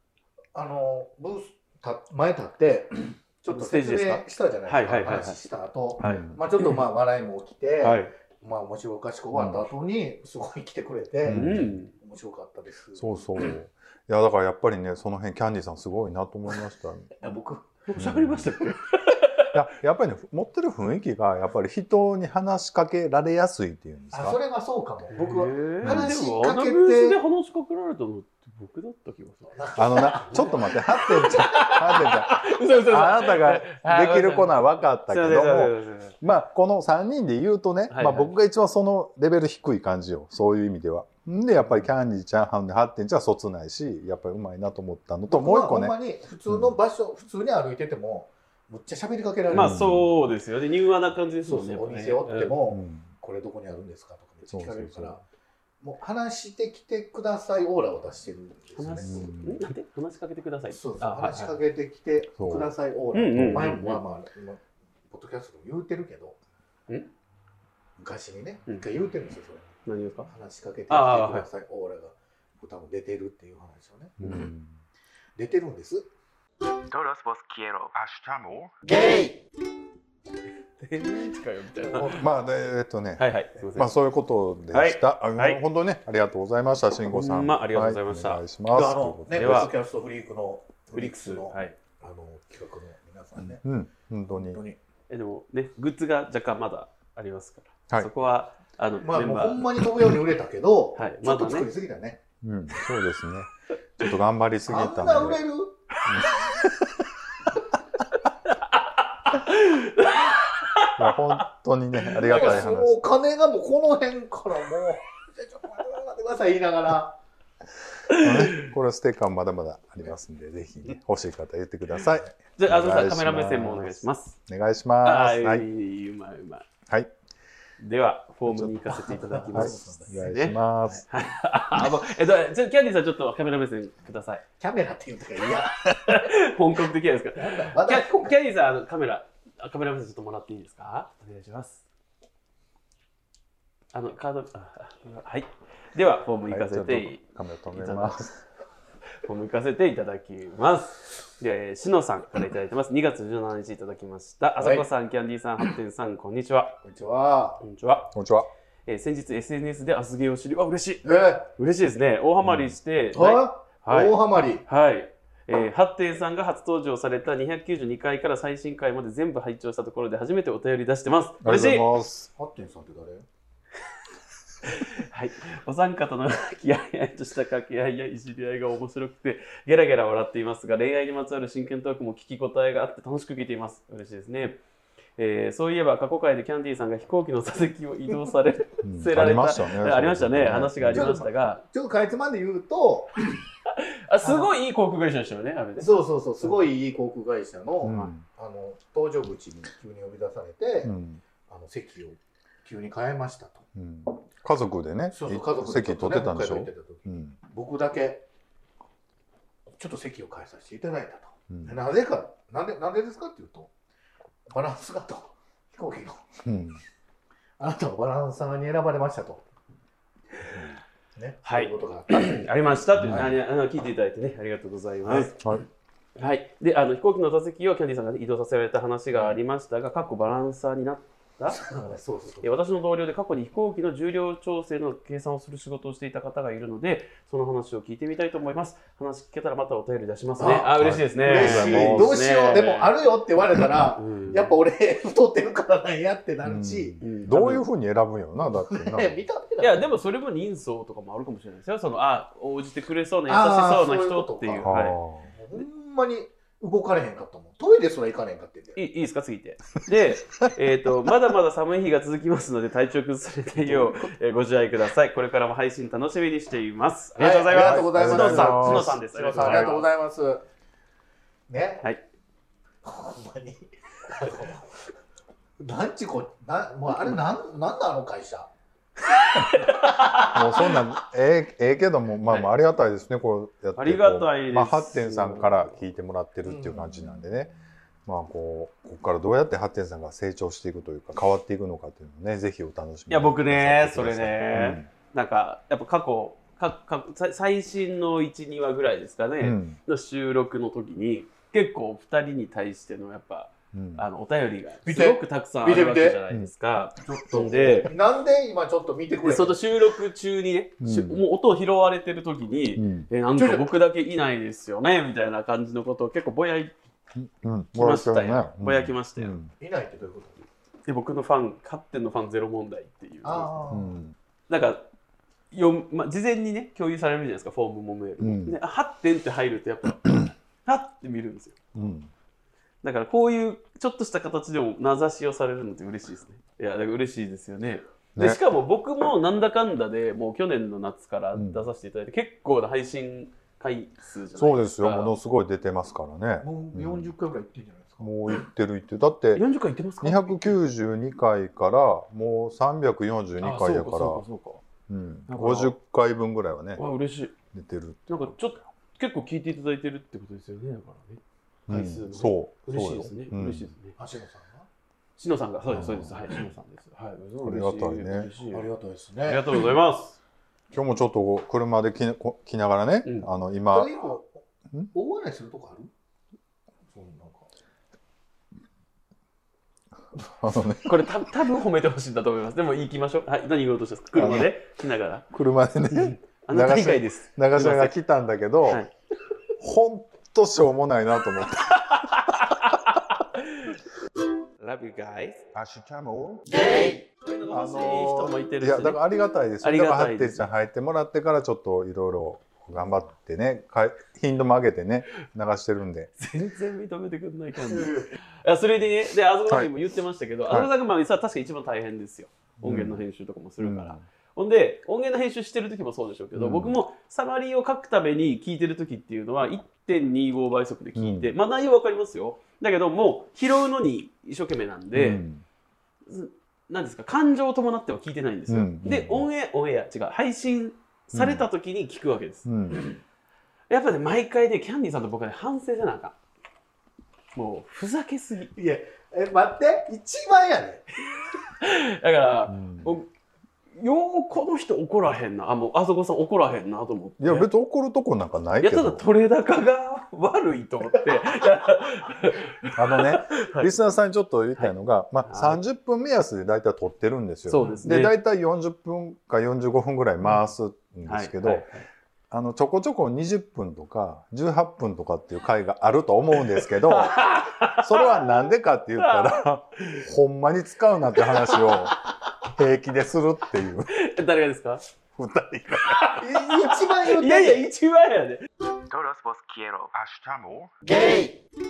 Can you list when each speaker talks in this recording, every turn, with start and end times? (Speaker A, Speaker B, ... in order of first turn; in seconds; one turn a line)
Speaker A: 0.5-11.4
Speaker B: 3.5-5.4
Speaker C: 6.0-6.4
Speaker B: 7.8-8.1
Speaker C: 11.2-11.7
Speaker B: 11.3-11.9
Speaker A: 12.0-13.4
Speaker C: 13.0-17.1
Speaker A: 17.2-17.8
Speaker B: 17.9-19.5
Speaker C: 17.9-18.5
Speaker C: 19.5-24.4
Speaker A: 24.1-27.2
Speaker B: 25.1-36.1
Speaker C: 25.8-26.1
Speaker A: 29.5-30.8
Speaker C: 29.8-45.9
Speaker B: 37.9-38.3
Speaker A: 45.3-49.8
Speaker C: 46.5-46.7
Speaker B: 49.5-52.5
Speaker C: 49.5-50.1
Speaker A: 51.4-55.2
Speaker C: 52.7-53.1
Speaker C: 54.5-55.2
Speaker A: 55.8-59.2
Speaker B: 58.8-61.5
Speaker C: 59.0-59.6
Speaker A: 60.7-66.4
Speaker C: 62.4-62.7
Speaker B: 63.1-64.0
Speaker C: 63.3-63.7
Speaker A: 68.0-69.7
Speaker B: 69.8-70.3
Speaker A: 70.2-74.5
Speaker B: 70.9-71.5
Speaker C: 74.2-74.8
Speaker A: 75.3-76.1
Speaker B: 76.8-77.9
Speaker C: 77.9-78.8
Speaker A: 78.8-79.4
Speaker B: 80.8-82.2
Speaker C: 81.9-89.7
Speaker B: 83.2-83.9
Speaker B: 84.7-85.6
Speaker B: 87.1-88.4
Speaker A: 88.7-93.6
Speaker B: 89.3-89.7
Speaker B: 90.9-91.7
Speaker C: 93.4-94.6
Speaker A: 94.3-94.8
Speaker B: 95.1-99.8
Speaker A: 99.0-102.2
Speaker B: 101.0-101.7
Speaker C: 102.4-105.4
Speaker A: 104.7-105.8
Speaker C: 106.1-106.3
Speaker B: 109.2-111.4
Speaker C: 111.0-113.0
Speaker A: 112.2-117.2
Speaker B: 112.2-112.6
Speaker C: 118.1-125.7
Speaker B: 118.1-118.7
Speaker B: 122.6-124.4
Speaker B: 125.0-126.7
Speaker B: 127.8-130.6
Speaker C: 128.5-128.8
Speaker A: 128.9-130.2
Speaker C: 129.5-131.0
Speaker B: 131.1-134.4
Speaker A: 134.6-136.3
Speaker B: 136.0-141.8
Speaker A: 137.3-138.3
Speaker B: 143.9-148.2
Speaker C: 146.5-148.4
Speaker B: 149.2-156.8
Speaker A: 154.6-154.8
Speaker A: 156.8-157.6
Speaker B: 157.6-158.1
Speaker C: 158.1-158.5
Speaker B: 158.9-164.1
Speaker A: 161.0-161.5
Speaker C: 162.4-162.7
Speaker A: 163.1-164.6
Speaker B: 164.7-171.9
Speaker C: 171.4-172.3
Speaker A: 172.3-173.2
Speaker B: 174.6-184.6
Speaker B: 185.2-191.6
Speaker C: 188.8-191.2
Speaker A: 190.9-193.1
Speaker B: 193.7-195.9
Speaker A: 194.2-194.5
Speaker A: 195.8-200.9
Speaker C: 197.8-198.2
Speaker B: 197.9-198.1
Speaker C: 200.8-201.2
Speaker A: 201.5-203.6
Speaker C: 203.7-207.3
Speaker A: 205.1-208.2
Speaker A: 209.8-213.7
Speaker C: 211.5-211.8
Speaker A: 214.5-216.2
Speaker C: 216.4-216.8
Speaker A: 217.6-219.4
Speaker A: 221.2-222.4
Speaker B: 221.4-225.4
Speaker C: 223.0-223.3
Speaker A: 225.1-225.3
Speaker B: 226.2-231.7
Speaker A: 231.5-232.5
Speaker B: 232.4-242.9
Speaker A: 240.4-247.0
Speaker C: 240.7-242.2
Speaker B: 243.9-244.5
Speaker C: 246.4-249.2
Speaker B: 247.0-247.6
Speaker A: 248.5-249.9
Speaker B: 249.6-255.0
Speaker A: 253.3-258.8
Speaker C: 254.6-255.3
Speaker B: 258.8-269.9
Speaker A: 263.6-264.1
Speaker A: 267.2-270.4
Speaker C: 267.5-269.7
Speaker A: 271.5-271.9
Speaker A: 272.8-274.8
Speaker A: 275.6-278.5
Speaker B: 279.3-280.8
Speaker C: 280.3-287.5
Speaker B: 283.8-285.7
Speaker A: 286.4-287.3
Speaker C: 288.1-294.9
Speaker B: 293.1-307.9
Speaker C: 299.4-299.8
Speaker C: 303.7-304.0
Speaker A: 304.8-306.2
Speaker A: 307.0-309.6
Speaker B: 309.2-316.7
Speaker C: 310.8-311.2
Speaker C: 312.7-313.1
Speaker A: 313.4-313.7
Speaker C: 317.1-319.5
Speaker B: 317.7-319.3
Speaker A: 319.6-320.4
Speaker B: 320.9-323.6
Speaker A: 323.2-323.9
Speaker C: 323.7-324.1
Speaker B: 324.5-324.8
Speaker B: 325.5-331.6
Speaker C: 328.2-328.6
Speaker C: 331.7-332.1
Speaker B: 332.8-345.1
Speaker C: 341.3-341.6
Speaker C: 344.3-347.1
Speaker A: 346.4-348.1
Speaker C: 348.0-349.4
Speaker B: 349.3-350.5
Speaker C: 350.0-354.2
Speaker B: 353.4-354.6
Speaker C: 354.9-356.8
Speaker B: 355.3-355.7
Speaker B: 356.8-357.4
Speaker C: 357.5-358.6
Speaker B: 358.1-363.9
Speaker C: 361.7-363.7
Speaker A: 364.0-364.7
Speaker B: 365.2-368.7
Speaker C: 365.6-366.2
Speaker C: 367.4-368.3
Speaker A: 368.5-369.5
Speaker B: 369.2-370.2
Speaker C: 370.7-373.9
Speaker A: 373.7-375.9
Speaker A: 376.9-377.5
Speaker C: 380.1-381.1
Speaker B: 380.8-385.3
Speaker C: 384.1-384.5
Speaker C: 385.3-388.8
Speaker B: 385.9-388.0
Speaker C: 389.6-392.4
Speaker B: 392.0-392.7
Speaker B: 393.4-393.7
Speaker B: 394.6-395.4
Speaker C: 395.5-396.7
Speaker B: 397.2-400.5
Speaker C: 397.5-406.1
Speaker B: 406.2-425.2
Speaker A: 407.7-408.1
Speaker C: 412.6-413.0
Speaker C: 413.6-414.0
Speaker C: 416.3-416.8
Speaker C: 420.9-421.3
Speaker C: 424.9-425.4
Speaker B: 426.1-433.0
Speaker C: 428.5-429.3
Speaker C: 431.1-431.5
Speaker C: 432.4-432.8
Speaker B: 433.7-436.1
Speaker B: 437.3-438.5
Speaker A: 438.5-440.8
Speaker B: 441.6-443.1
Speaker C: 442.5-442.9
Speaker B: 443.7-447.5
Speaker C: 447.2-449.0
Speaker B: 448.6-453.7
Speaker C: 452.7-461.7
Speaker B: 455.3-455.6
Speaker B: 457.5-458.1
Speaker B: 461.1-461.9
Speaker C: 462.3-473.9
Speaker B: 466.8-468.4
Speaker B: 469.0-469.4
Speaker B: 471.3-471.8
Speaker B: 473.9-474.8
Speaker C: 475.1-476.2
Speaker B: 475.9-479.9
Speaker A: 476.2-477.6
Speaker C: 479.9-480.7
Speaker A: 480.8-481.4